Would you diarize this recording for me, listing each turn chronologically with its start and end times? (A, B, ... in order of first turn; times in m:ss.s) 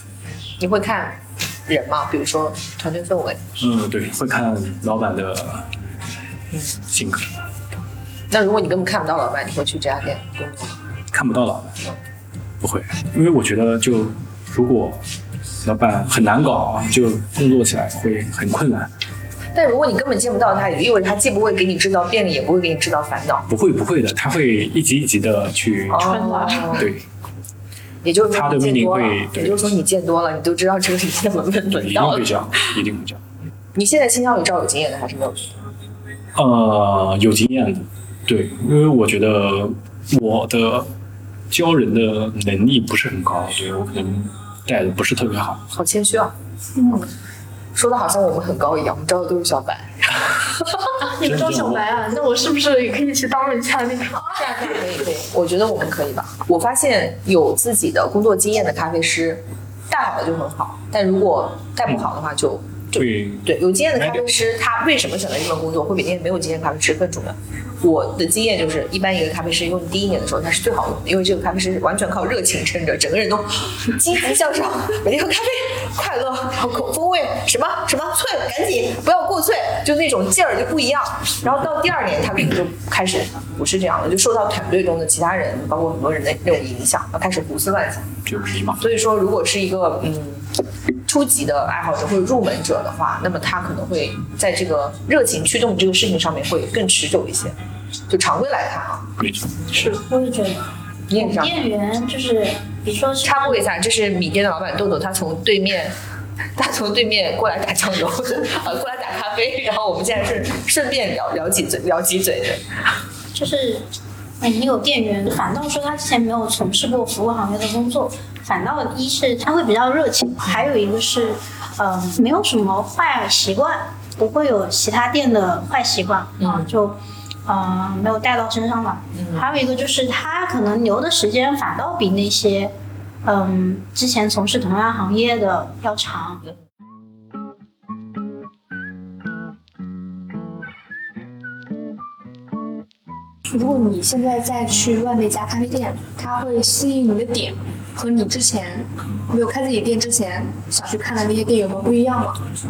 0:00.6-0:03.4 A
0:03.6-0:05.7 B
0:06.9-0:07.3 B
0:08.3-0:10.8 A
0:11.1-0:11.8 B
0:12.6-0:15.0 B
0:15.6-0:18.9 B
0:19.5-0:23.5 A
0:23.5-0:27.0 B
0:25.9-0:26.9 A
0:26.0-0:26.9 C
0:28.0-0:32.7 A
0:28.3-0:29.7 B
0:31.7-0:33.2 B
0:33.8-0:35.6 A
0:36.4-0:40.9 B
0:41.5-0:45.6 B
0:45.7-0:47.1 A
0:47.8-0:50.7 A
0:51.0-0:54.4 C
0:51.2-0:51.9 B
0:54.3-1:28.1 A
1:03.0-1:04.3 B
1:28.2-1:29.0 B
1:28.8-1:30.5 A
1:31.0-1:37.6 A
1:38.1-1:39.1 A
1:39.2-1:39.5 B
1:39.7-1:43.7 D
1:41.1-1:41.6 A
1:43.2-1:46.0 A
1:46.6-1:52.6 A
1:53.3-1:53.9 D
1:54.4-2:12.7 D
2:13.2-2:16.4 D
2:23.5-2:32.4 E